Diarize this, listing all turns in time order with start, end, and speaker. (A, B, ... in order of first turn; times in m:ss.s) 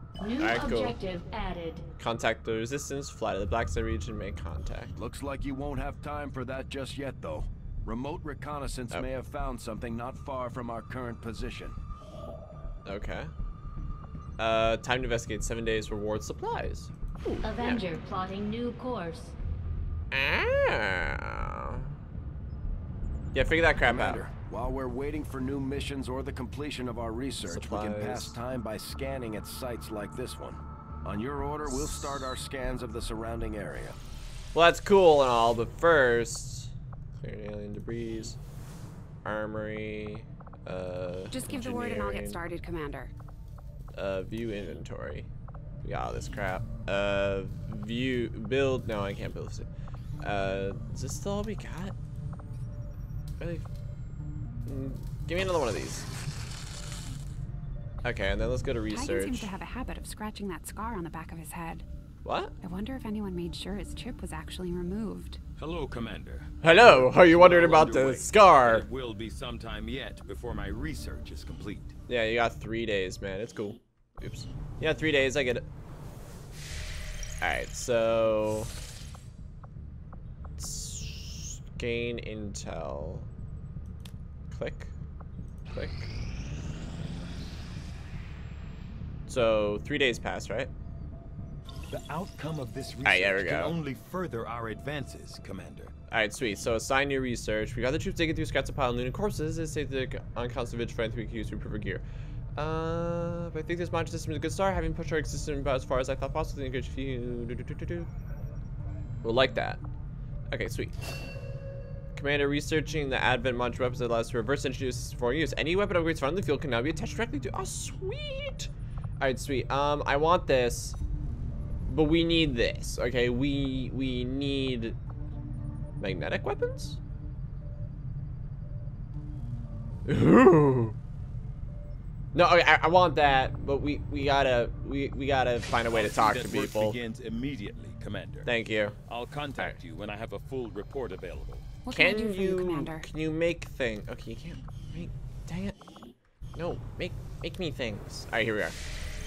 0:00.2-0:01.9 A
0:00.4-0:01.0 B
0:02.0-0:04.9 B
0:05.0-0:11.8 C
0:12.9-0:13.3 B
0:14.4-0:17.8 B
0:17.4-0:19.4 A
0:20.1-0:21.9 B
0:23.3-0:24.2 B
0:23.8-0:34.0 C
0:27.5-0:28.4 B
0:31.6-0:32.3 B
0:34.5-0:38.4 B
0:39.2-0:42.4 B
0:41.3-0:43.1 D
0:44.0-0:45.3 B
0:45.8-0:49.7 B
0:50.2-0:52.0 B
0:53.4-0:53.7 B
0:54.7-0:56.1 B
0:58.0-0:59.5 B
0:58.9-1:01.8 D
1:02.2-1:02.5 B
1:02.6-1:05.4 D
1:05.6-1:12.0 E
1:06.6-1:08.9 B
1:12.1-1:15.6 B
1:17.4-1:18.7 B
1:20.6-1:23.3 B
1:24.5-1:24.9 B
1:25.7-1:26.1 B
1:29.3-1:30.7 B
1:31.9-1:35.9 E
1:33.0-1:33.8 B
1:36.1-1:42.0 B
1:42.6-1:48.1 B
1:49.2-1:49.8 B
1:50.5-1:50.9 B
1:52.2-2:01.0 B
2:01.8-2:05.0 B
2:06.0-2:07.0 B
2:10.1-2:11.0 B
2:12.3-2:17.0 B
2:15.9-2:18.5 E
2:18.5-2:19.0 B
2:19.1-2:21.7 E
2:21.8-2:23.1 D
2:21.9-2:25.8 B
2:26.6-2:28.8 B